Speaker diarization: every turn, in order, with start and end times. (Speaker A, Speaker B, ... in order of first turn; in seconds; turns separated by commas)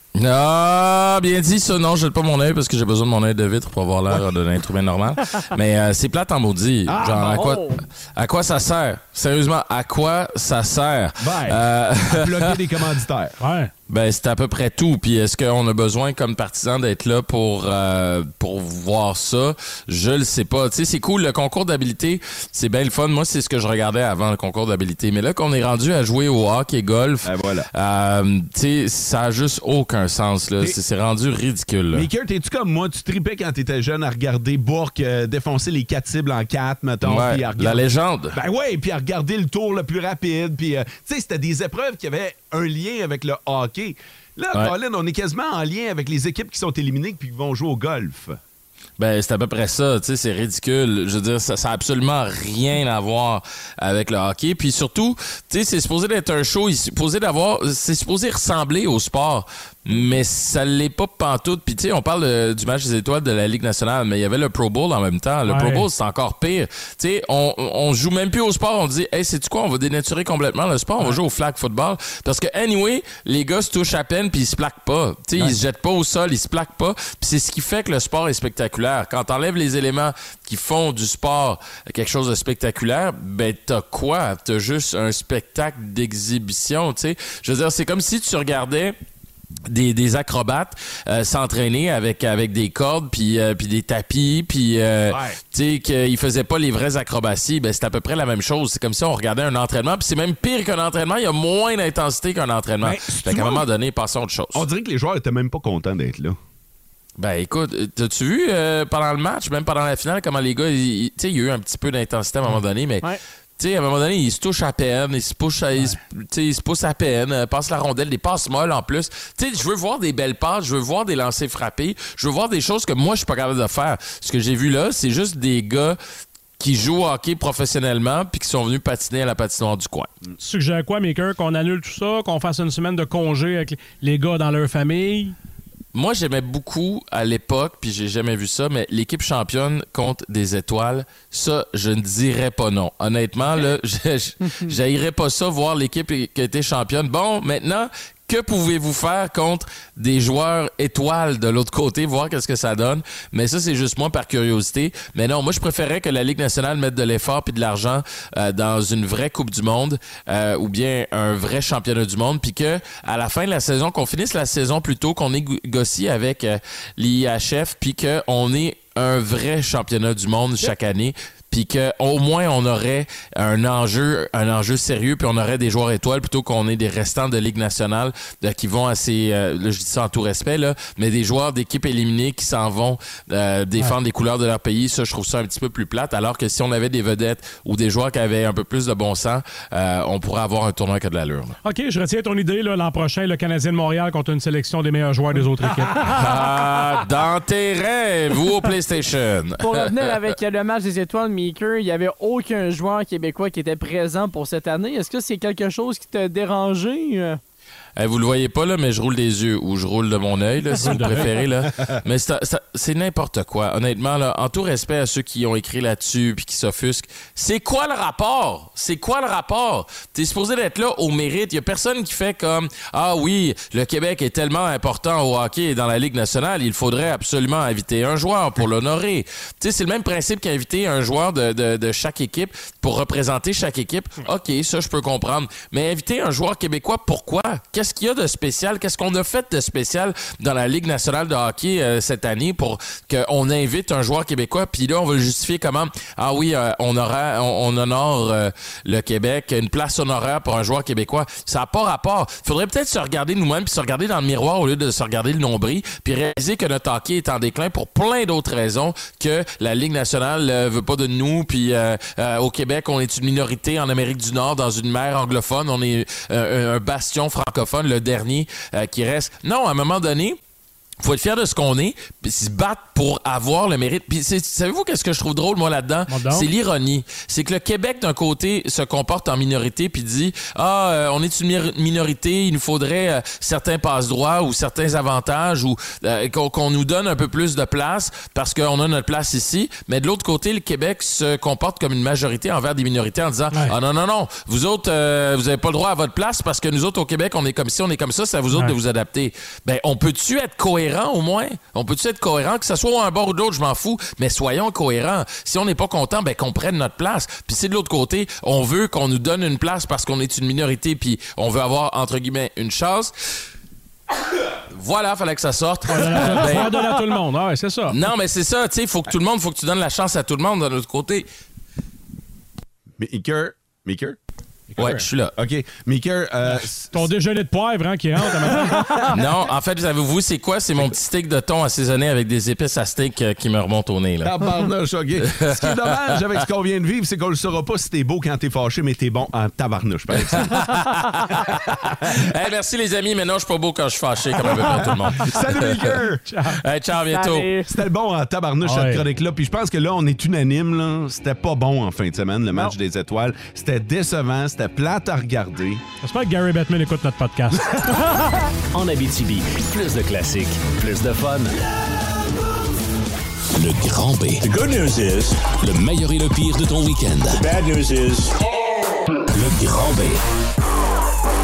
Speaker A: 0.2-12.6, Speaker B: 6.9-7.7, Speaker B: 11.2-13.4, Speaker C: 13.4-13.7, Speaker A: 13.9-32.1, Speaker B: 27.2-27.7, Speaker B: 31.9-48.4, Speaker A: 37.0-38.4, Speaker A: 49.0-89.0, Speaker C: 65.5-65.9, Speaker A: 89.7-104.7, Speaker B: 95.1-95.4, Speaker B: 102.8-103.7, Speaker B: 104.5-106.4, Speaker A: 107.2-126.0, Speaker A: 126.6-130.1, Speaker C: 130.4-135.4, Speaker A: 135.9-191.6, Speaker C: 191.6-196.2, Speaker A: 196.0-200.0, Speaker D: 199.6-207.4, Speaker A: 208.0-270.4, Speaker C: 210.8-211.3, Speaker A: 271.0-313.1, Speaker C: 276.1-276.5, Speaker A: 314.7-316.9, Speaker C: 315.9-318.0, Speaker A: 317.9-321.3, Speaker B: 323.0-324.2, Speaker A: 324.8-325.4, Speaker B: 324.8-327.1, Speaker C: 326.5-329.2, Speaker B: 328.6-329.3, Speaker A: 329.1-334.5, Speaker B: 334.2-340.8, Speaker A: 335.2-336.2, Speaker A: 340.3-346.0, Speaker B: 344.6-346.3, Speaker C: 346.3-346.6, Speaker A: 346.5-347.5, Speaker D: 347.1-347.7, Speaker B: 347.7-355.8, Speaker C: 348.6-349.1, Speaker C: 356.0-358.4, Speaker E: 358.7-361.5, Speaker E: 363.6-368.3, Speaker E: 369.3-370.2